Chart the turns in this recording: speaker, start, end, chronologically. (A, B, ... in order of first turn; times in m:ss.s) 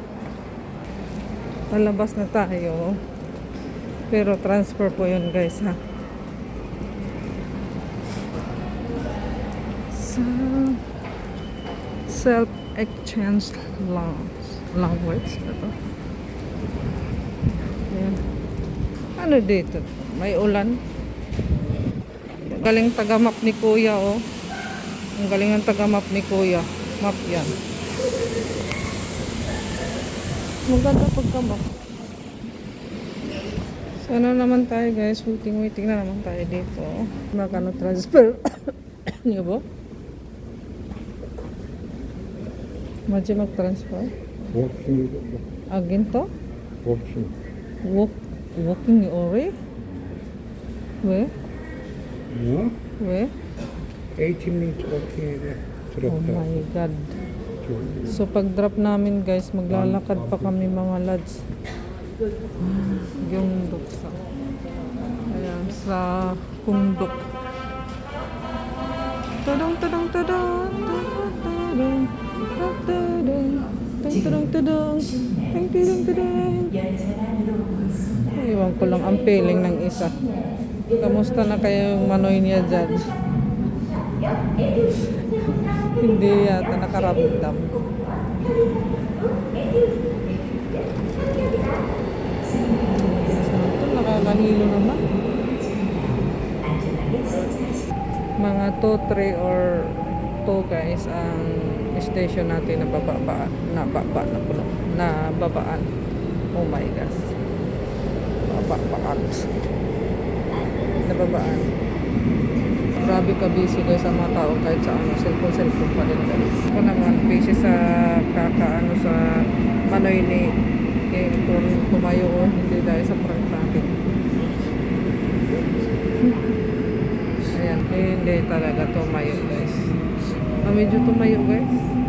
0:01.7-0:03.0 A
0:04.1-0:05.8 A
0:09.9-0:10.8 A
0:12.1-0:15.7 A
0:17.9-0:18.2 A
0:19.2-0:20.8 A
0:22.4-0:24.2 A
0:25.2-0:27.5 A
0:30.7-0:31.7 A
0:34.0-0:39.6 A
0:43.1-0:44.1 A
0:44.5-0:45.5 B
0:45.7-0:46.3 A
0:46.8-0:47.4 B
0:47.8-0:49.5 A
0:51.0-0:51.3 A
0:52.3-0:52.8 B
0:53.0-0:53.3 A
0:54.2-0:56.6 B
0:56.1-0:57.2 A
0:57.6-0:58.2 B
0:58.0-1:01.4 A
0:59.7-1:00.6 B
1:02.6-1:04.2 A
1:05.3-1:07.2 A
1:09.4-1:16.8 A
1:18.3-1:20.2 A
1:21.0-1:23.1 A
1:25.8-1:27.8 A
1:32.8-1:35.1 A
1:38.4-1:45.9 A
1:46.5-1:47.3 A
1:48.4-1:49.5 A
1:50.8-1:51.7 A
1:53.0-2:00.6 A
2:01.1-2:04.0 A
2:06.2-2:06.5 A
2:07.5-2:09.9 A
2:10.6-2:11.9 A